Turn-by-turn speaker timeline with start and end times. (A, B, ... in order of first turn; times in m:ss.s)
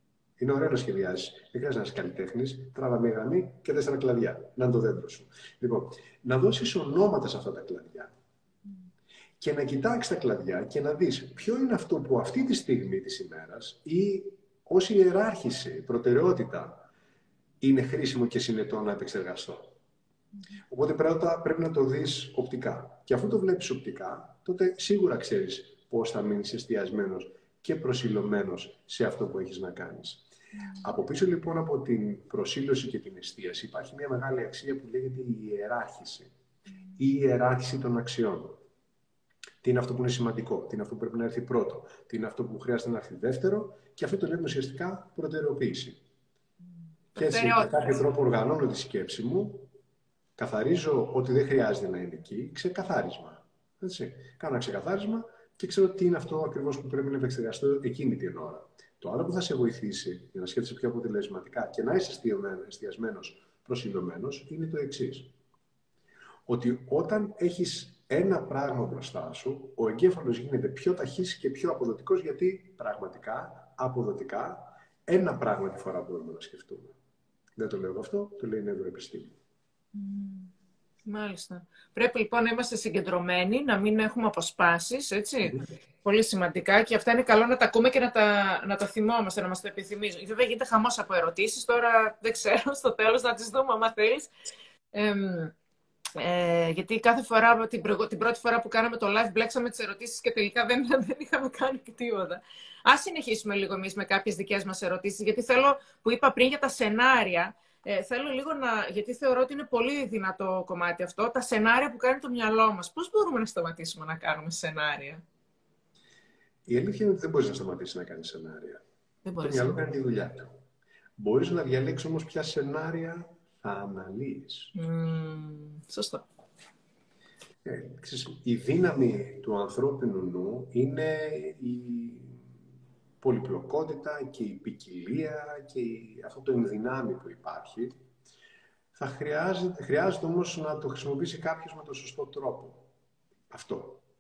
0:00.4-0:08.1 A
0:09.4-0:16.9 A
0:17.6-0:19.7 A
0:20.7-0:30.3 A
0:30.8-0:36.3 A
0:37.0-0:38.6 A
0:39.6-0:46.0 A
0:47.2-0:48.0 B
0:47.2-0:49.7 A
0:50.4-1:05.3 A
1:06.5-1:16.9 A
1:17.6-1:19.3 A
1:20.0-1:20.5 B
1:21.0-1:34.3 B
1:34.9-1:35.5 B
1:36.2-1:55.2 B
1:56.7-1:58.8 A
1:59.2-1:59.8 B
1:59.4-2:00.5 A
2:01.2-2:04.7 A
2:04.8-2:06.2 B
2:07.6-2:12.4 A
2:13.2-2:17.9 A
2:19.0-2:22.9 A
2:23.5-2:24.0 A